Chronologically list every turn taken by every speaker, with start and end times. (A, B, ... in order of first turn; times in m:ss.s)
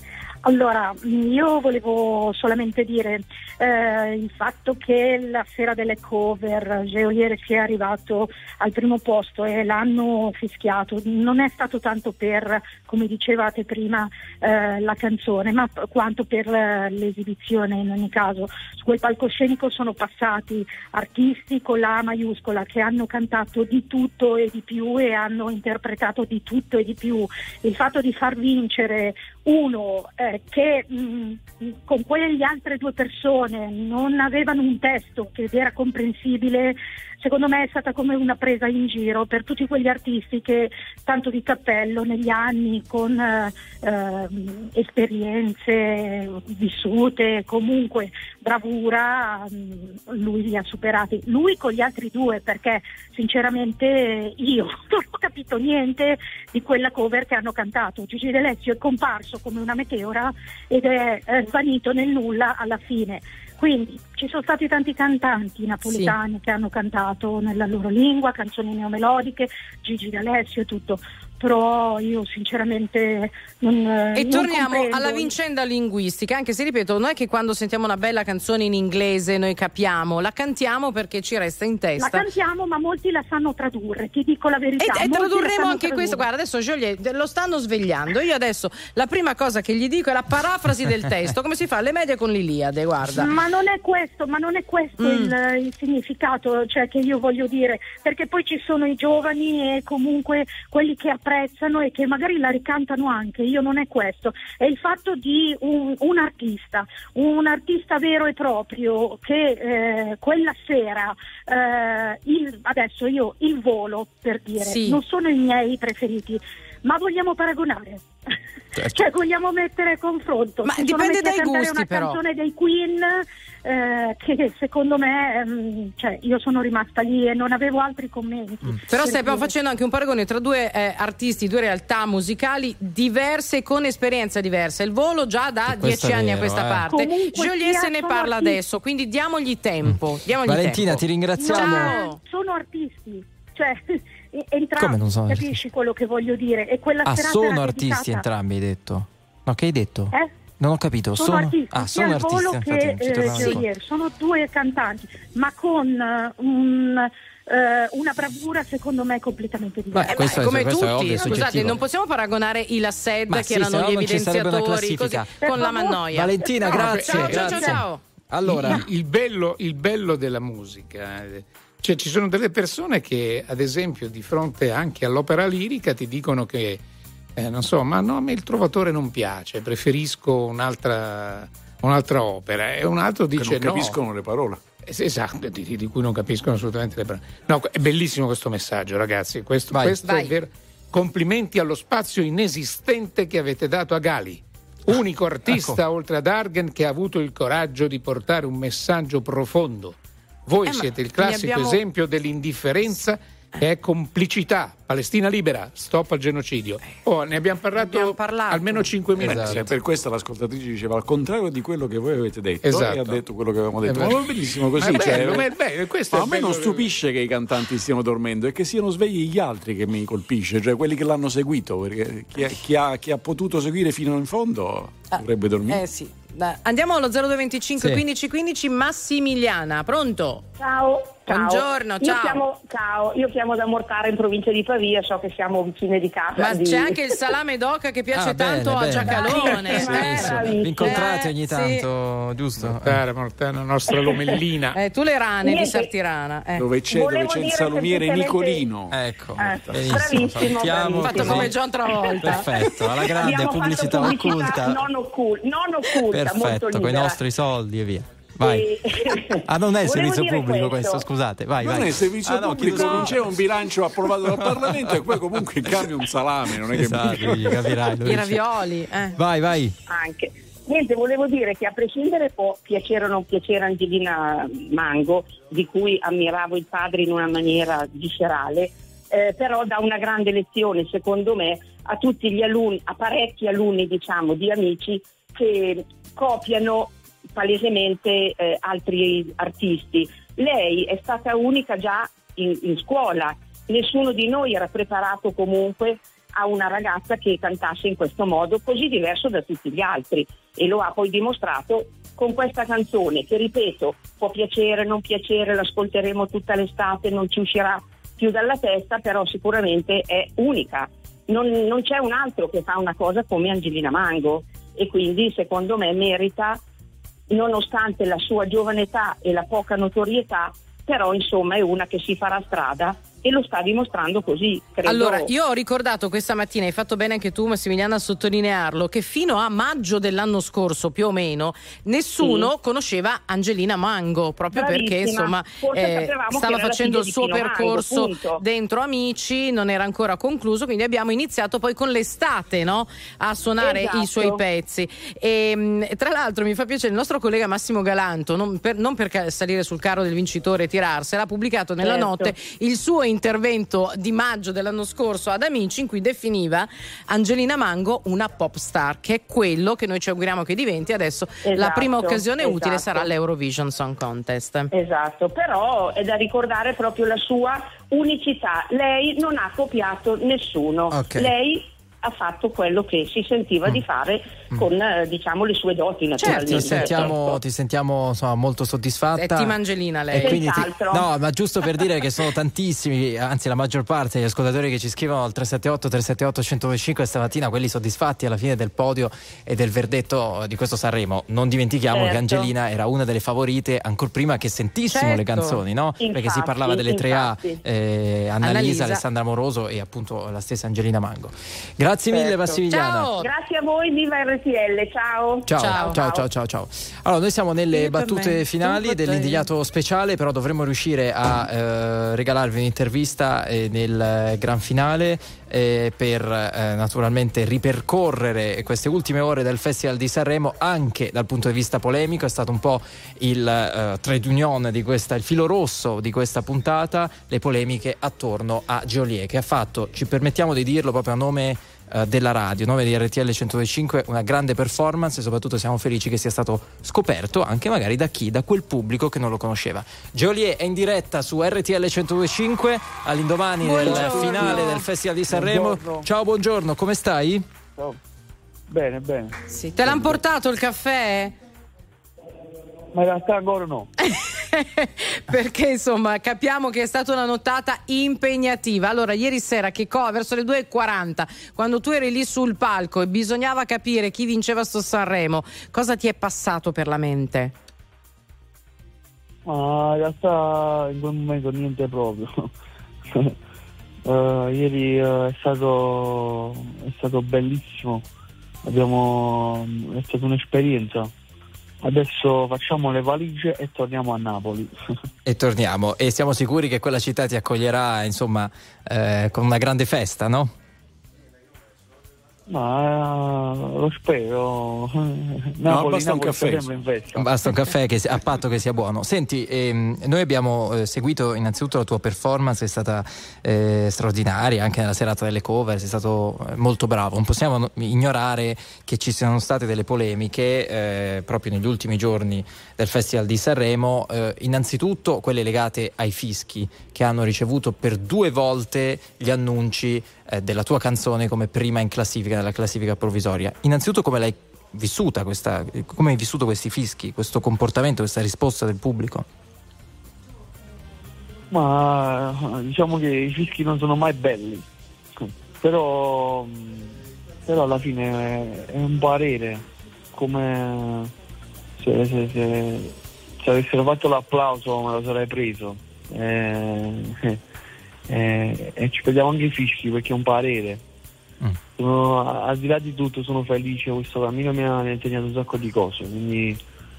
0:00.4-1:15.3 A
1:05.8-1:06.2 B
1:14.1-1:22.2 B
1:22.0-1:26.2 A
1:24.8-1:33.3 B
1:33.1-1:58.0 A
1:35.0-1:35.3 B
1:54.6-1:55.0 B
1:58.8-1:59.1 C
1:58.9-2:09.5 A
2:00.6-2:02.2 B
2:08.9-2:22.2 B
2:15.6-2:16.9 C
2:16.9-2:18.6 A
2:19.8-2:22.0 C
2:21.4-2:28.2 A
2:24.8-2:25.6 C
2:27.0-2:33.6 C
2:31.1-2:40.4 A
2:39.9-2:41.8 C
2:40.0-2:48.0 B
2:43.3-2:48.8 C
2:45.4-2:46.7 A
2:46.7-2:47.6 D
2:48.4-2:56.8 D
2:57.4-3:04.0 D
3:03.4-3:04.6 E
3:04.8-3:29.7 D
3:09.7-3:10.0 C
3:10.0-3:10.3 B
3:15.5-3:15.8 C
3:20.7-3:21.8 B
3:27.8-3:28.9 B
3:29.2-3:35.5 E
3:29.2-3:29.6 C
3:32.6-3:33.2 D
3:33.8-3:36.9 D
3:36.1-3:45.8 E
3:45.1-3:50.4 B
3:47.8-3:48.0 C
3:50.6-3:57.1 F
3:51.3-3:52.4 B
3:56.4-4:01.8 B
3:58.1-4:03.0 C
3:59.0-4:01.0 F
4:02.6-4:04.8 D
4:04.7-4:06.6 B
4:05.4-4:05.9 F
4:06.6-4:10.6 E
4:06.9-4:08.6 F
4:08.9-4:11.5 C
4:09.4-4:17.2 F
4:10.8-4:12.7 B
4:12.2-4:14.8 C
4:16.0-4:18.8 C
4:18.4-4:21.0 F
4:19.4-4:23.3 C
4:21.6-4:27.6 E
4:22.8-4:23.1 B
4:24.3-4:25.0 C
4:26.7-4:28.4 C
4:28.0-4:29.2 B
4:29.2-4:29.7 C
4:29.9-5:16.6 F
5:17.3-5:25.3 F
5:24.8-6:04.7 B
5:32.2-5:32.5 F
5:34.5-5:38.4 F
5:43.6-5:44.4 F
5:51.8-5:52.3 F
6:01.4-6:03.1 F
6:04.7-6:17.4 F
6:10.9-6:11.3 C
6:16.2-6:17.1 B
6:16.2-6:19.6 C
6:19.2-6:20.7 B
6:20.1-6:43.1 C
6:20.2-6:21.1 F
6:31.9-6:32.5 F
6:34.9-6:35.6 B
6:36.0-6:37.6 F
6:38.4-6:39.0 B
6:42.1-6:43.3 B
6:43.2-6:46.1 F
6:45.4-7:27.5 C
6:45.6-6:46.2 B
6:47.7-6:49.4 B
7:23.6-7:24.8 B
7:23.8-7:24.7 G
7:25.3-7:26.0 G
7:28.7-7:30.2 G
7:29.5-7:31.3 B
7:32.9-7:33.9 G
7:34.0-7:47.5 B
7:49.4-7:52.5 G
7:54.0-7:58.0 G
7:58.6-8:01.1 G
8:01.8-8:04.7 G
8:05.2-8:10.5 C
8:12.5-8:17.4 G
8:15.6-8:16.7 E
8:17.2-8:49.2 C
8:51.5-8:54.6 G
8:55.6-9:01.1 G
9:01.8-9:07.4 G
9:08.1-9:10.8 G
9:11.8-9:16.6 G